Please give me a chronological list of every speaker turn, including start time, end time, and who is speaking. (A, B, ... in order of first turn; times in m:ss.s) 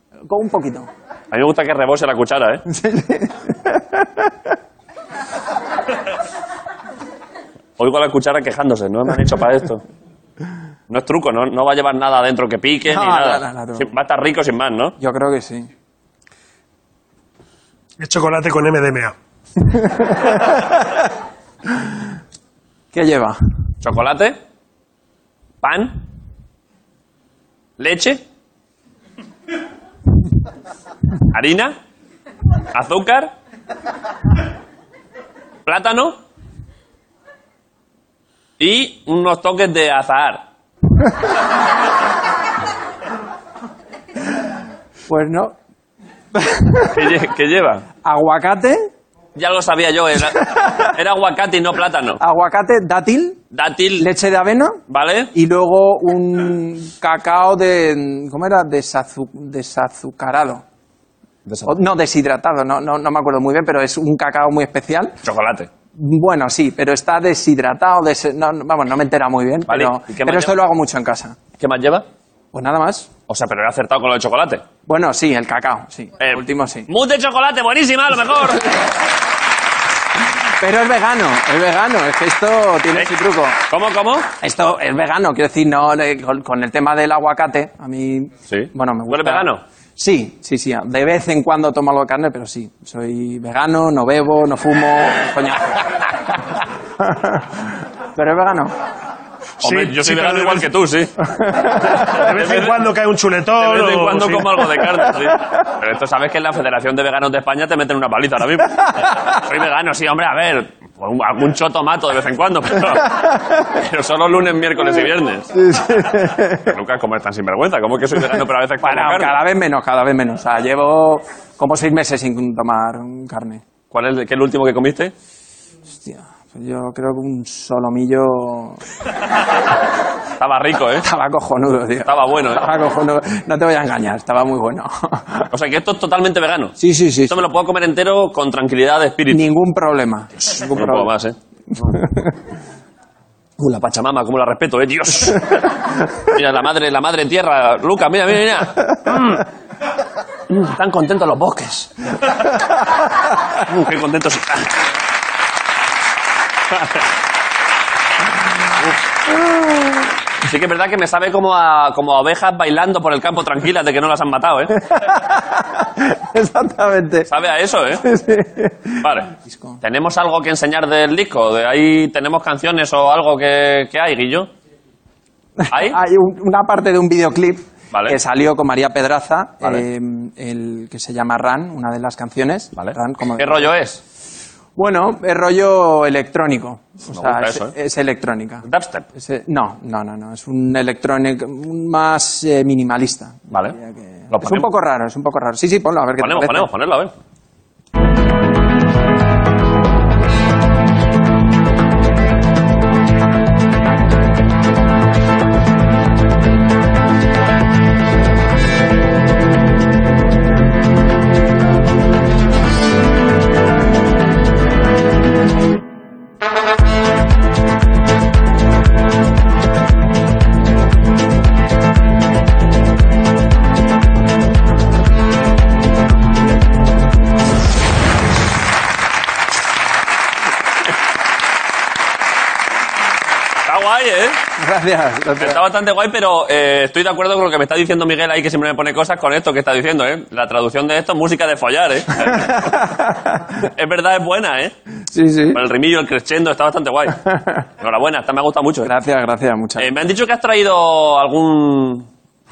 0:00.3-0:00.9 A
0:01.3-0:02.6 B
0:02.7-0:04.5 A
0:07.8-0:09.8 B
0:10.9-0:15.0 B
0:12.9-0:13.9 A
0:15.0-0:15.7 A
0:18.0-0:19.1 C
0:19.6-0:21.1 A
0:21.7-0:22.0 A
0:22.9-0:23.4 A
0:23.8-0:24.4 B
0:25.6-0:26.0 B
0:27.8-0:28.2 B
0:31.3-0:31.8 B
0:32.7-0:33.3 B
0:35.7-0:36.2 B
0:38.6-0:40.4 B
0:45.1-0:45.6 A
0:46.4-0:47.1 A
0:46.9-0:47.9 B
0:48.0-0:48.9 A
0:49.4-0:52.2 B
0:52.2-0:53.4 A
0:53.5-0:54.1 B
0:54.0-0:54.8 A
0:54.9-0:55.3 B
0:55.3-1:00.6 A
1:01.5-1:01.8 B
1:01.7-1:05.2 A
1:05.2-1:05.7 B
1:06.0-1:11.4 A
1:09.7-1:10.6 B
1:11.6-1:12.0 B
1:12.5-1:13.1 A
1:13.3-1:14.6 B
1:14.9-1:16.9 A
1:16.2-1:18.7 B
1:20.6-1:23.6 A
1:23.7-1:24.3 B
1:24.4-1:38.7 A
1:28.5-1:29.6 B
1:39.6-1:42.8 B
1:39.6-1:40.7 C
1:41.3-1:42.1 A
1:42.1-1:44.6 C
1:43.6-1:55.5 B
1:53.2-1:53.6 A
1:55.5-1:56.8 A
1:56.6-1:59.4 B
1:58.8-2:03.6 A
2:03.9-2:05.1 B
2:06.0-2:08.8 A
2:10.4-2:11.1 B
2:11.0-2:15.5 A
2:12.0-2:12.7 B
2:15.5-2:19.5 B
2:16.8-2:17.4 A
2:19.3-2:21.1 A
2:20.4-2:22.0 B
2:21.9-2:22.3 A
2:23.6-2:29.4 B
2:30.5-2:31.9 B
2:33.6-2:34.7 B
2:36.7-2:37.0 B
2:39.3-2:40.1 A
2:40.4-2:44.8 B
2:44.8-2:47.3 A
2:47.3-2:48.0 B
2:48.0-2:49.8 A
2:49.0-2:54.5 B
2:55.6-3:03.7 A
2:55.7-2:56.0 B
2:57.9-2:58.2 B
3:02.8-3:04.0 B
3:04.8-3:08.6 A
3:07.1-3:07.8 B
3:08.6-3:09.1 B
3:09.2-3:16.7 A
3:13.5-3:13.8 B
3:14.3-3:14.7 B
3:16.2-3:17.1 B
3:53.7-3:54.4 B
3:54.6-3:55.6 A
3:55.4-4:02.9 B
4:02.2-4:03.5 A
4:03.6-4:04.7 B
4:05.1-4:05.6 A
4:05.5-4:07.2 B
4:07.2-4:07.6 A
4:07.8-4:08.9 B
4:08.8-4:09.9 A
4:09.8-4:12.1 B